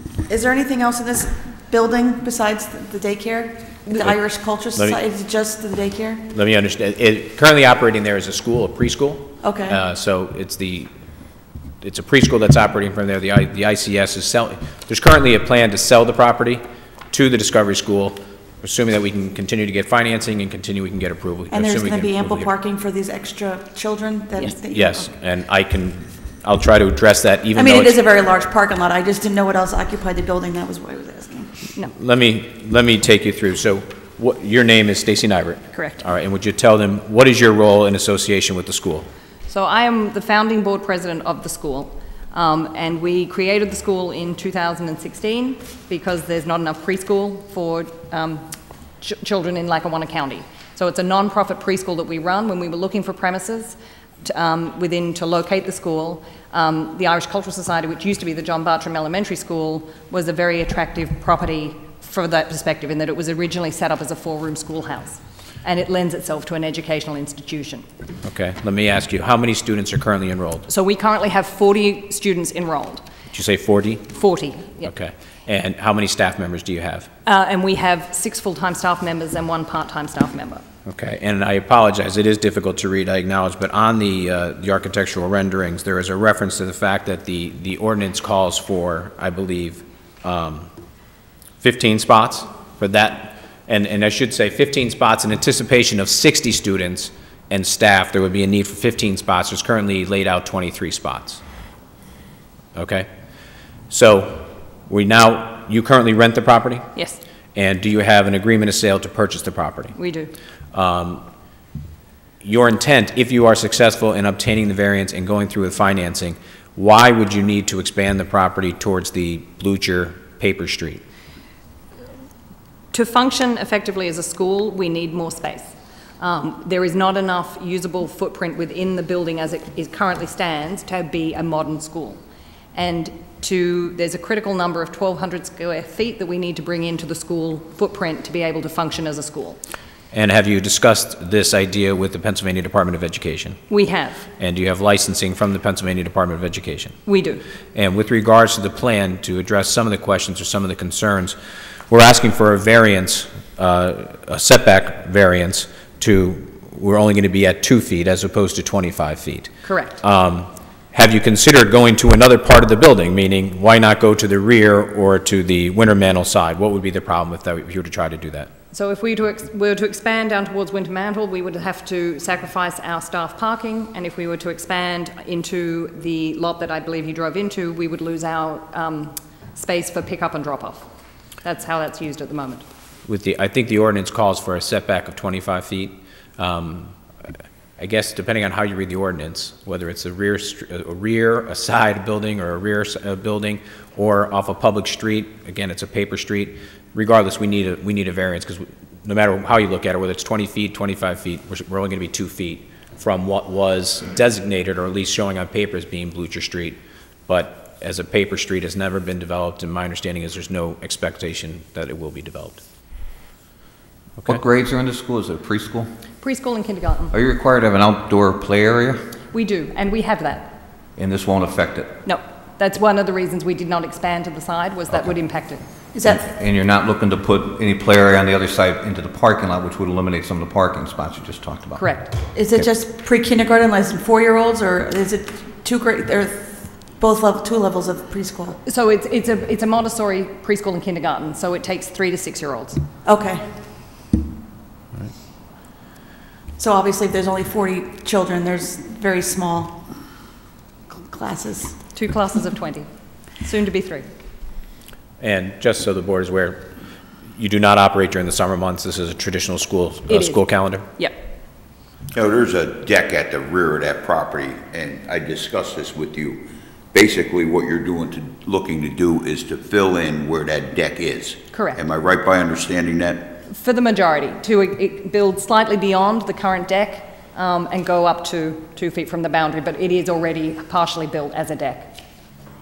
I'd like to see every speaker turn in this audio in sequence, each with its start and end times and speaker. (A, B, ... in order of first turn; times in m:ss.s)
0:00.3-0:06.3 A
0:06.3-0:10.9 B
0:09.4-0:09.8 A
0:11.8-0:16.6 B
0:17.1-0:22.5 B
0:21.5-0:25.0 A
0:24.7-0:28.0 B
0:27.5-0:31.6 A
0:31.9-0:39.1 B
0:35.7-0:36.0 C
0:39.5-0:48.4 C
0:49.0-1:07.8 C
1:08.2-1:10.7 B
1:10.7-1:13.0 C
1:13.3-1:14.1 B
1:14.1-1:14.9 C
1:14.8-1:17.1 B
1:17.2-1:20.6 C
1:20.9-1:30.7 B
1:31.6-1:41.4 B
1:42.7-1:43.1 B
1:43.9-1:46.8 B
1:46.9-1:47.2 C
1:47.5-1:49.9 B
1:50.0-1:50.3 C
1:50.7-1:51.2 B
1:52.4-2:01.0 B
2:02.9-2:12.2 C
2:12.7-2:19.6 C
2:20.1-2:23.6 B
2:23.7-2:24.2 C
2:24.4-2:27.0 B
2:27.0-2:27.4 C
2:27.7-2:31.4 B
2:31.9-2:39.5 B
2:39.6-2:40.0 C
2:40.0-2:48.5 B
2:48.7-3:00.9 C
3:01.4-3:02.6 C
3:03.1-3:06.9 B
3:07.8-3:32.6 B
3:34.2-3:35.9 D
3:36.2-3:37.2 C
3:37.1-3:39.0 D
3:39.3-3:40.6 C
3:41.0-3:42.0 D
3:42.0-3:45.6 C
3:45.9-3:46.3 A
3:46.0-3:51.8 D
3:51.8-3:52.2 C
3:52.3-3:58.6 A
3:58.6-4:02.8 C
4:03.0-4:03.6 A
4:06.6-4:09.9 A
4:10.9-4:11.8 A
4:11.9-4:12.9 C
4:13.4-4:14.1 C
4:15.2-4:16.7 B
4:17.4-4:20.8 B
4:20.1-4:20.4 C
4:22.1-4:33.4 E
4:31.5-4:31.8 C
4:33.5-4:41.9 C